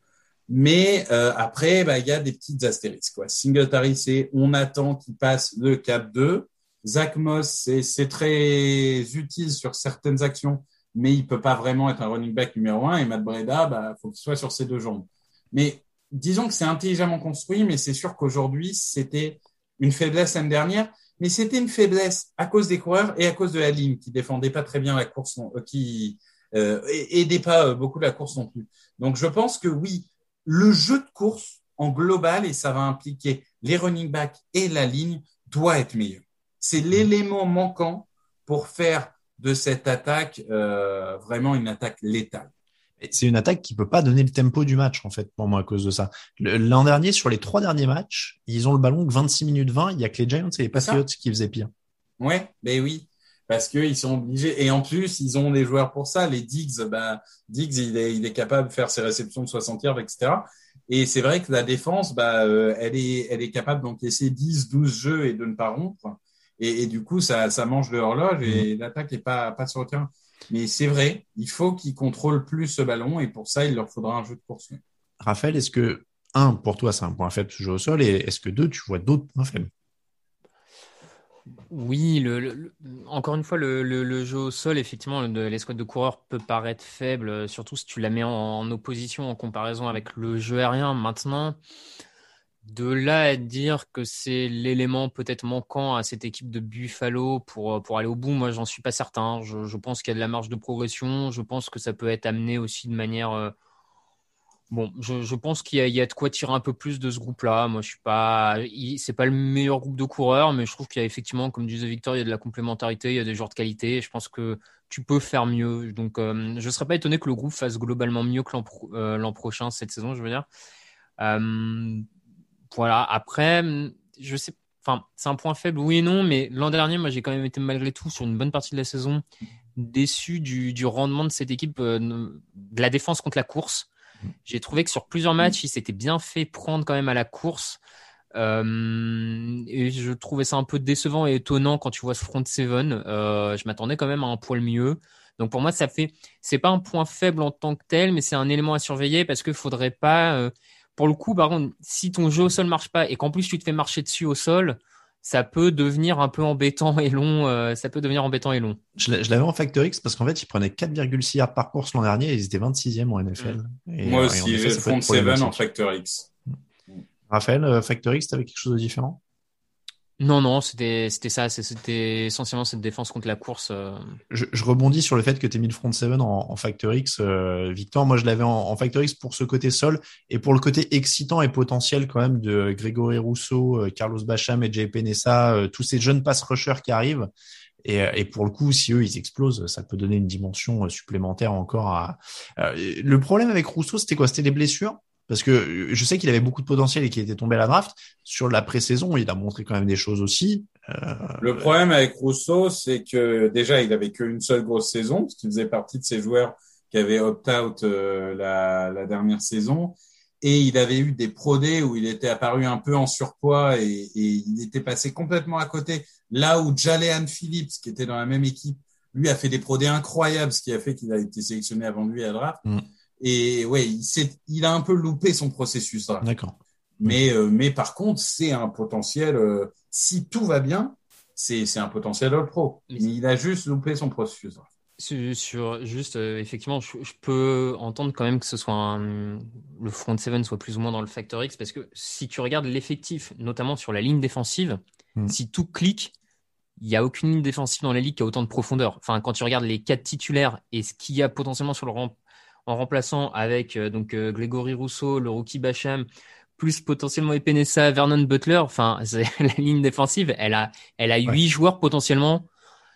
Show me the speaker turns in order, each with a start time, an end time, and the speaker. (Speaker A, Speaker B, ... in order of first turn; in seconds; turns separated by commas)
Speaker A: 0.5-42.5, Speaker B: 43.0-51.7, Speaker A: 50.7-51.0, Speaker A: 52.2-74.8, Speaker B: 75.2-79.7, Speaker C: 81.7-91.6, Speaker C: 92.6-103.5, Speaker C: 104.7-120.5, Speaker C: 121.2-122.0, Speaker C: 122.7-129.2, Speaker C: 129.8-133.9, Speaker C: 134.4-137.8, Speaker C: 138.3-158.8, Speaker B: 159.0-165.6, Speaker A: 164.0-166.3, Speaker B: 167.3-169.2, Speaker C: 170.2-174.2, Speaker B: 174.3-187.3, Speaker B: 187.8-201.7, Speaker A: 201.4-222.6, Speaker A: 223.2-226.3, Speaker B: 226.2-227.2, Speaker A: 227.0-234.7, Speaker C: 235.0-246.1, Speaker C: 246.8-262.4